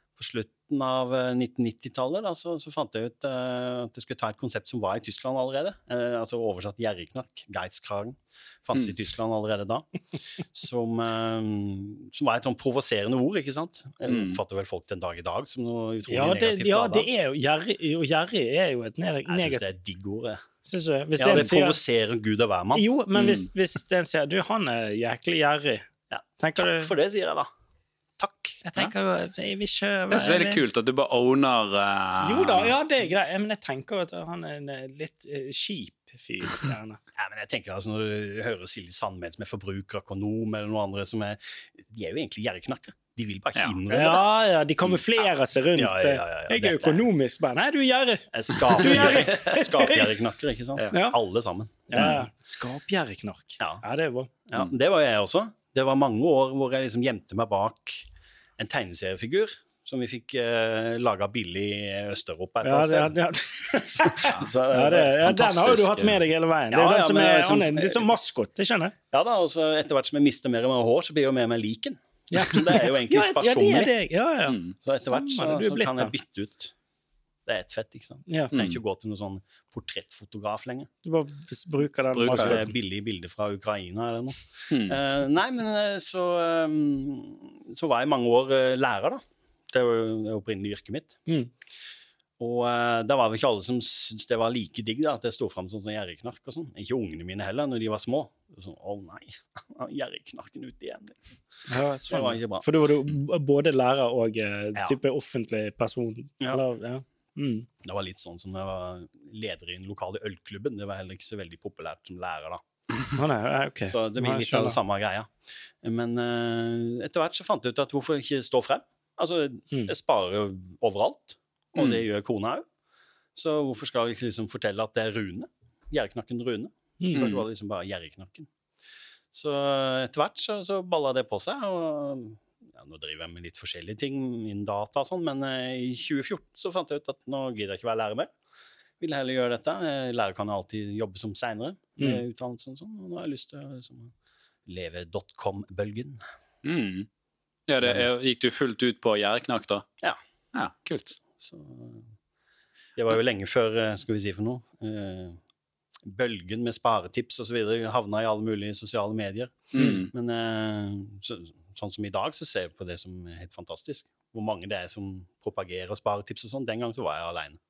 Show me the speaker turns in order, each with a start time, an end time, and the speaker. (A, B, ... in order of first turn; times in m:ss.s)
0:00.2-0:09.8 A
0:10.4-0:17.1 A
0:14.1-0:14.4 B
0:16.1-0:19.6 C
0:19.3-0:20.4 A
0:20.6-0:21.8 C
0:21.2-0:22.8 A
0:22.7-0:25.8 C
0:23.1-0:23.5 B
0:26.1-0:27.5 A
0:26.4-0:26.9 C
0:28.2-0:28.6 A
0:28.6-0:30.6 C
0:30.1-0:32.7 B
0:32.2-0:37.0 C
0:37.1-0:44.2 A
0:43.9-0:50.1 C
0:45.7-0:47.0 A
0:48.3-0:52.2 A
0:48.8-0:49.2 B
0:50.9-0:51.2 C
0:51.9-0:54.3 C
0:54.5-1:08.1 A
1:02.6-1:08.9 C
1:09.1-1:13.9 A
1:12.3-1:16.1 C
1:14.5-1:14.7 B
1:14.8-1:16.7 A
1:17.4-1:20.9 A
1:18.3-1:18.5 C
1:18.5-1:18.8 B
1:21.0-1:22.6 C
1:22.2-1:22.6 B
1:22.3-1:31.2 A
1:24.7-1:25.0 B
1:32.4-1:41.4 A
1:41.7-1:47.7 C
1:42.1-1:42.6 A
1:47.8-1:52.6 A
1:53.1-1:54.8 C
1:53.9-2:02.6 A
2:03.3-2:08.5 A
2:07.0-2:07.3 C
2:07.1-2:07.4 B
2:09.3-2:18.3 A
2:19.0-2:24.1 A
2:24.6-2:26.2 A
2:26.6-2:27.1 B
2:27.7-2:29.8 B
2:30.5-2:31.2 B
2:31.4-2:32.1 A
2:33.0-2:35.4 A
2:36.0-2:47.6 A
2:39.7-2:40.1 B